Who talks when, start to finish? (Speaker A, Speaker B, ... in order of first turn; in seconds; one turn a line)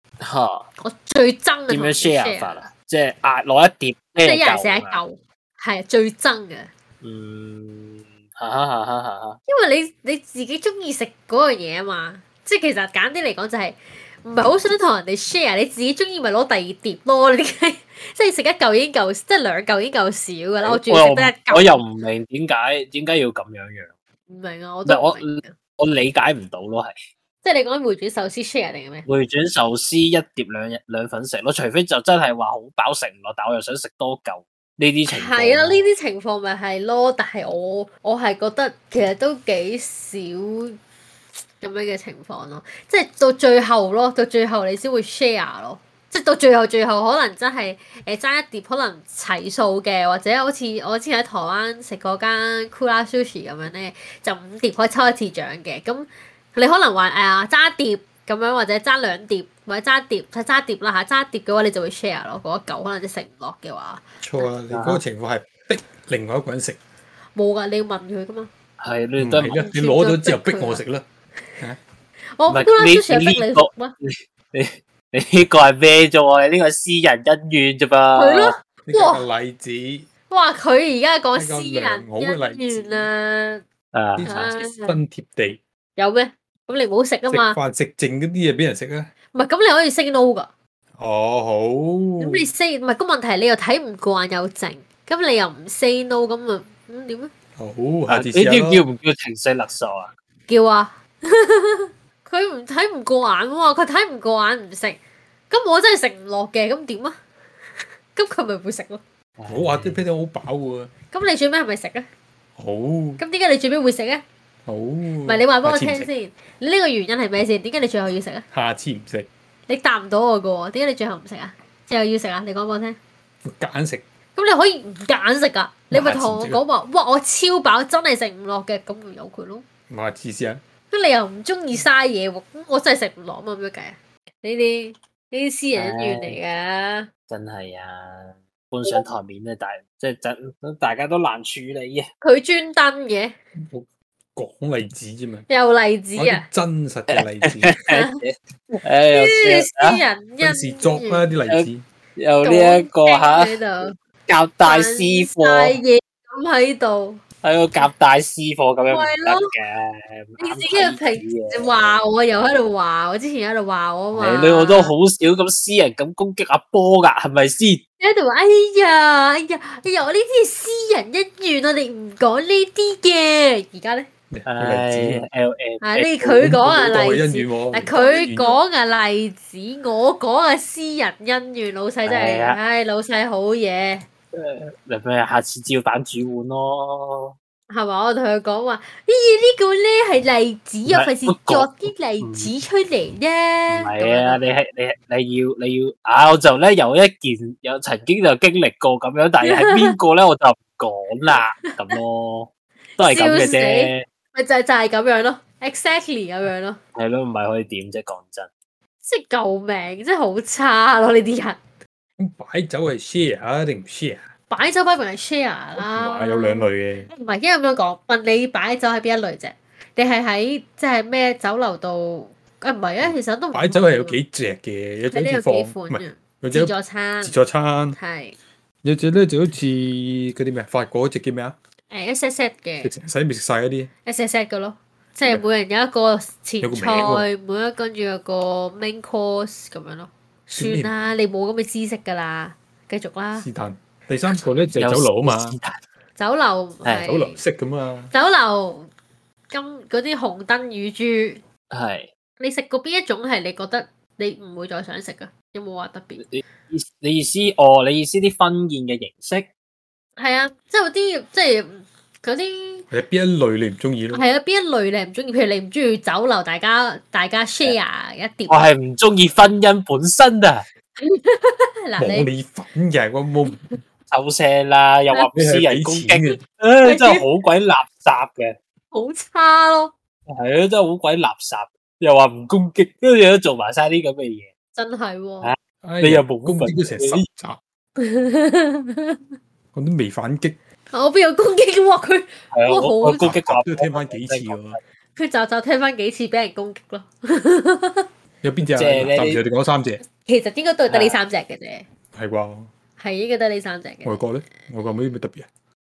Speaker A: 0.2-0.7
Speaker B: 0.8-2.6
Speaker A: 1.7-5.0
Speaker B: 4.2-6.7
Speaker A: 7.0-9.4
Speaker B: 9.5-21.8
Speaker A: 20.6-23.9
Speaker B: 24.3-25.5
Speaker A: 24.9-26.9
Speaker B: 27.4-29.1
Speaker A: 29.1-35.8
Speaker B: 35.1-40.8
Speaker B: 41.6-64.5
Speaker C: 64.2-66.8
Speaker A: 64.7-65.0
Speaker B: 67.3-68.5
Speaker A: 68.8-69.5
Speaker C: 69.2-71.0
Speaker B: 69.4-70.8
Speaker B: 72.4-73.9
Speaker A: 72.5-78.5
Speaker B: 78.2-79.2
Speaker C: 78.8-80.1
Speaker B: 80.3-83.6
Speaker C: 81.3-83.1
Speaker A: 83.9-84.3
Speaker C: 84.2-85.6
Speaker B: 84.2-85.0
Speaker B: 86.0-87.6
Speaker C: 87.3-89.1
Speaker B: 89.3-90.5
Speaker C: 91.0-92.4
Speaker B: 92.2-97.3
Speaker C: 97.6-98.8
Speaker A: 98.1-100.1
Speaker B: 100.5-107.2
Speaker B: 108.1-109.0
Speaker A: 109.4-110.0
Speaker C: 109.5-110.9
Speaker B: 111.1-112.1
Speaker C: 112.6-113.2
Speaker B: 113.2-114.2
Speaker C: 114.7-116.1
Speaker B: 115.2-118.4
Speaker C: 118.5-119.3
Speaker B: 119.7-123.0
Speaker C: 123.4-124.0
Speaker B: 124.3-129.6
Speaker C: 125.9-126.6
Speaker C: 129.9-130.6
Speaker B: 130.9-137.1
Speaker A: 135.7-136.4
Speaker A: 137.3-142.1
Speaker B: 142.2-143.3
Speaker C: 143.6-145.5
Speaker B: 145.5-146.4
Speaker C: 146.2-147.8
Speaker A: 147.1-150.0
Speaker B: 147.9-148.2
Speaker B: 149.0-151.2
Speaker C: 150.4-151.8
Speaker A: 151.5-153.6
Speaker B: 152.4-153.9
Speaker A: 154.3-155.8
Speaker B: 154.6-157.2
Speaker A: 157.4-161.9
Speaker B: 158.9-159.5
Speaker B: 160.4-164.9
Speaker A: 164.1-167.8
Speaker B: 168.0-174.1
Speaker C: 174.3-175.3
Speaker A: 174.5-176.9
Speaker B: 175.8-184.1
Speaker C: 176.4-178.6
Speaker A: 182.1-182.6
Speaker A: 184.3-187.3
Speaker B: 187.7-194.4
Speaker A: 190.9-192.5
Speaker A: 193.7-204.0
Speaker B: 199.4-200.0
Speaker B: 203.0-206.8
Speaker A: 206.9-208.5
Speaker B: 209.0-211.6
Speaker C: 212.2-214.3
Speaker B: 214.5-224.2
Speaker C: 215.8-217.1
Speaker C: 223.0-228.0
Speaker B: 225.1-227.3
Speaker B: 227.9-228.3
Speaker C: 228.8-231.6
Speaker B: 231.9-232.9
Speaker C: 232.8-233.9
Speaker B: 234.1-243.5
Speaker C: 236.6-237.3
Speaker C: 240.6-240.9
Speaker C: 243.4-245.6
Speaker A: 244.8-245.8
Speaker B: 246.2-247.4
Speaker A: 246.8-247.1
Speaker C: 247.0-248.1
Speaker B: 248.1-248.9
Speaker B: 249.5-251.4
Speaker A: 251.7-252.1
Speaker B: 252.4-256.2
Speaker A: 256.2-259.5
Speaker B: 260.2-262.9
Speaker C: 262.9-264.2
Speaker B: 264.1-268.7
Speaker A: 268.5-270.6
Speaker B: 271.0-272.3
Speaker C: 272.0-273.7
Speaker A: 274.1-278.6
Speaker C: 275.3-276.4
Speaker B: 276.8-277.2
Speaker B: 278.9-279.9
Speaker A: 280.3-284.5
Speaker B: 284.8-285.5
Speaker A: 285.4-287.2
Speaker C: 285.8-287.6
Speaker B: 288.0-289.2
Speaker C: 289.7-290.6
Speaker B: 290.9-293.3
Speaker A: 292.5-294.8
Speaker C: 293.1-294.8
Speaker B: 295.1-298.1
Speaker C: 298.4-300.0
Speaker A: 298.8-299.4
Speaker B: 300.1-301.8
Speaker A: 300.9-301.2
Speaker C: 302.1-302.7
Speaker B: 303.0-304.3
Speaker C: 304.0-305.5